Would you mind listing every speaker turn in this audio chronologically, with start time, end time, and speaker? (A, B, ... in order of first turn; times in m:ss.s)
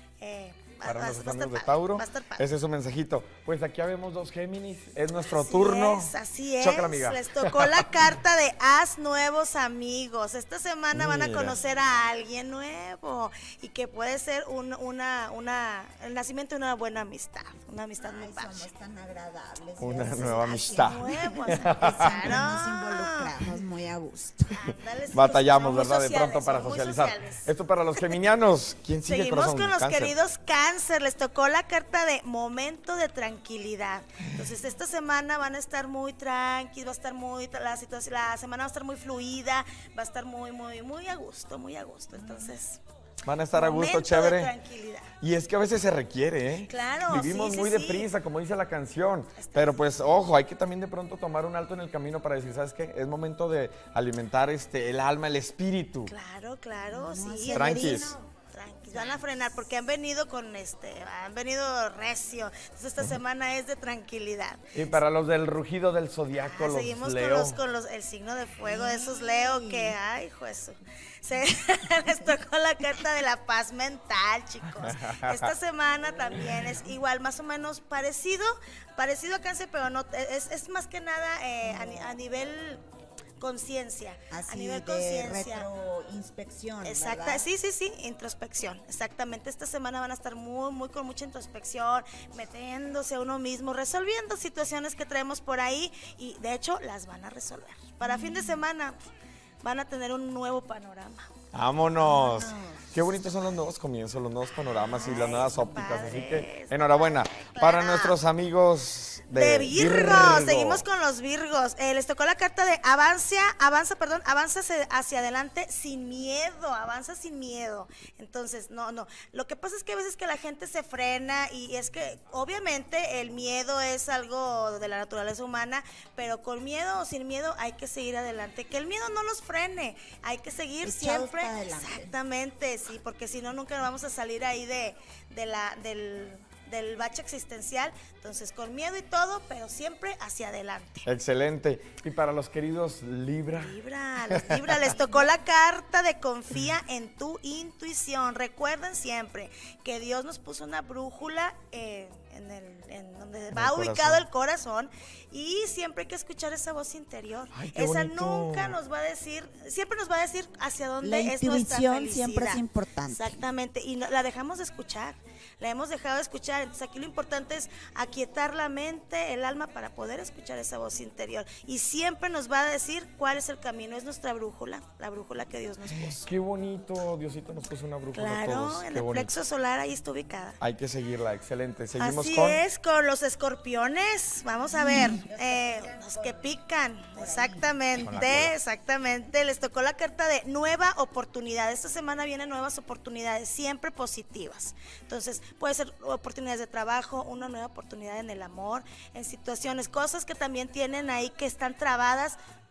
0:00.2-0:02.4 A
0:00.8-0:07.9 B
0:05.2-0:18.7 A
0:10.9-0:11.6 B
0:18.0-0:24.6 C
0:19.8-0:22.1 B
0:20.7-0:23.4 A
0:24.5-0:27.5 A
0:25.1-0:30.1 B
0:29.1-0:42.8 A
0:42.2-0:42.5 C
0:43.2-0:44.5 B
0:43.5-0:45.1 A
0:45.2-0:56.1 B
0:46.7-0:48.1 A
0:49.3-0:49.8 A
0:56.1-1:04.8 A
0:56.9-0:58.2 C
0:57.5-0:58.1 B
0:58.9-0:59.4 C
1:04.7-1:07.6 B
1:06.4-1:22.8 A
1:08.6-1:10.0 C
1:14.7-1:15.5 B
1:21.6-1:22.2 C
1:23.4-1:25.7 A
1:24.3-1:27.4 C
1:26.8-1:39.0 A
1:38.0-1:38.6 C
1:39.6-1:41.3 A
1:41.5-1:50.8 B
1:42.0-1:43.6 C
1:44.9-1:45.4 C
1:44.9-1:48.2 A
1:49.3-2:21.1 A
2:10.8-2:12.1 C
2:21.1-2:23.7 B
2:23.5-2:56.2 A
2:24.3-2:24.9 B
2:33.5-2:34.2 B
2:37.5-2:38.8 B
2:41.0-2:43.4 C
2:55.9-2:59.4 B
2:58.1-3:00.6 A
3:00.6-3:02.6 B
3:02.0-3:22.4 A
3:04.7-3:06.5 C
3:07.1-3:07.8 C
3:08.0-3:08.5 B